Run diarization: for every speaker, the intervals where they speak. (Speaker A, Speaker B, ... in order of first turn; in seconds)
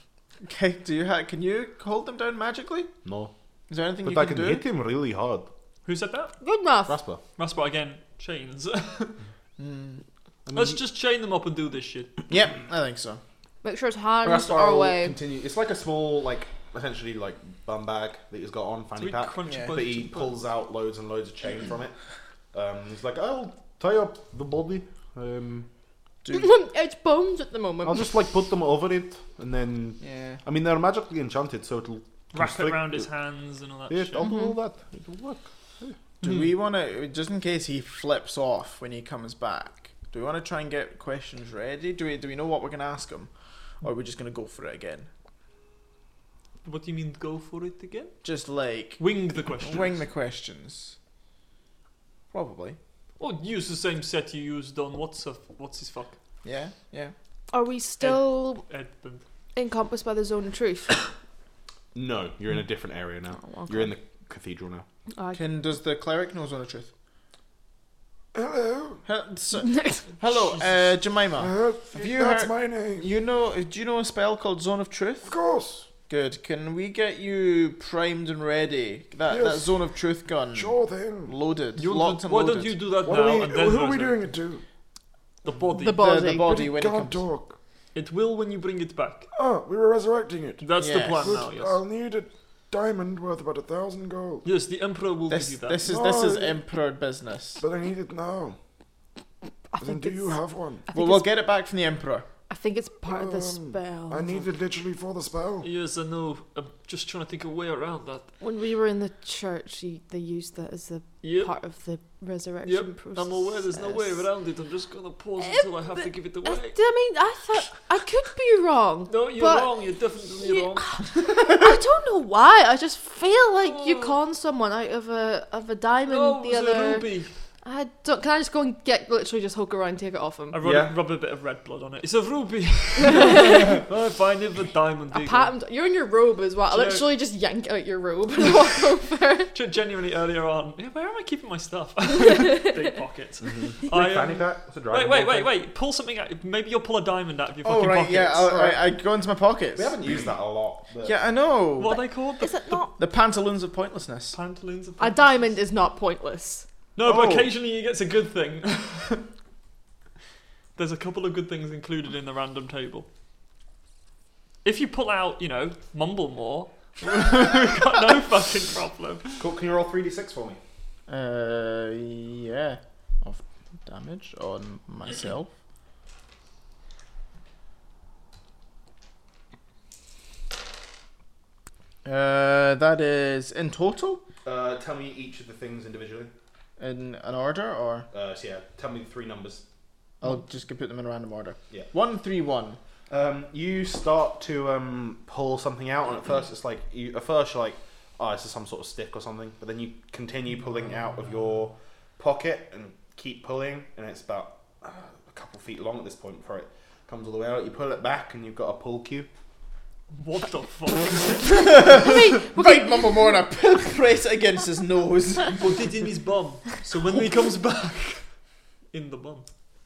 Speaker A: 0.4-2.9, 3.7-4.6, 9.6-10.0, 12.3-13.2, 19.4-19.7, 26.2-26.5, 30.0-30.4, 36.2-43.3, 43.8-45.1, 48.2-49.0, 49.6-51.0, 52.3-52.8, 56.4-57.1, 65.3-66.9, 69.0-75.3, 76.1-82.8, 85.9-87.2, 90.8-91.4, 95.3-97.6, 100.9-102.2, 147.6-150.3, 151.0-152.0, 153.0-154.4, 157.0-157.5, 171.1-175.5, 182.0-184.2, 186.8-188.1, 190.2-192.8, 211.5-215.8
Speaker B: 3.0-3.3, 4.0-5.5, 6.9-7.2, 10.4-10.8, 14.2-21.9, 22.5-25.7, 27.8-33.1, 33.9-36.0, 61.9-64.8, 130.6-130.9, 143.4-145.6, 149.8-151.1, 169.4-170.6, 184.4-186.3, 188.1-189.6, 193.1-209.3
Speaker C: 5.8-6.4, 7.4-9.2, 10.5-12.1, 19.0-20.4, 32.3-34.3, 36.2-36.5, 46.6-48.2, 49.0-50.0, 53.2-56.2, 58.0-59.2, 70.3-70.8, 81.8-84.3, 85.4-86.0, 87.9-89.3, 90.6-91.8, 94.4-95.8, 105.6-108.3, 111.2-111.5, 112.6-116.8, 119.1-121.0, 123.6-124.2, 126.1-127.3, 130.5-135.6, 136.7-137.1, 139.5-148.7, 151.8-152.9, 154.3-155.5, 157.0-159.3, 160.8-163.1, 164.6-169.3, 210.1-212.0, 215.5-218.2, 218.9-219.5
Speaker D: 6.4-7.0, 13.6-15.2, 26.3-28.1, 34.2-34.5, 57.5-58.6, 59.5-61.1, 63.3-63.9, 65.1-65.4, 69.6-70.0, 85.8-86.6, 99.7-101.3, 102.5-104.5, 108.4-114.3, 115.4-119.7, 120.4-127.1, 127.6-130.6, 133.0-133.8, 135.1-139.5, 142.2-142.8, 151.8-152.9, 155.0-156.7, 211.6-213.4
Speaker E: 68.3-69.0, 71.3-73.1, 75.2-75.9, 79.2-79.8, 80.5-81.3, 83.0-84.6, 86.4-87.6, 89.3-94.5, 95.8-96.6, 97.6-98.6, 99.8-100.9, 103.0-105.7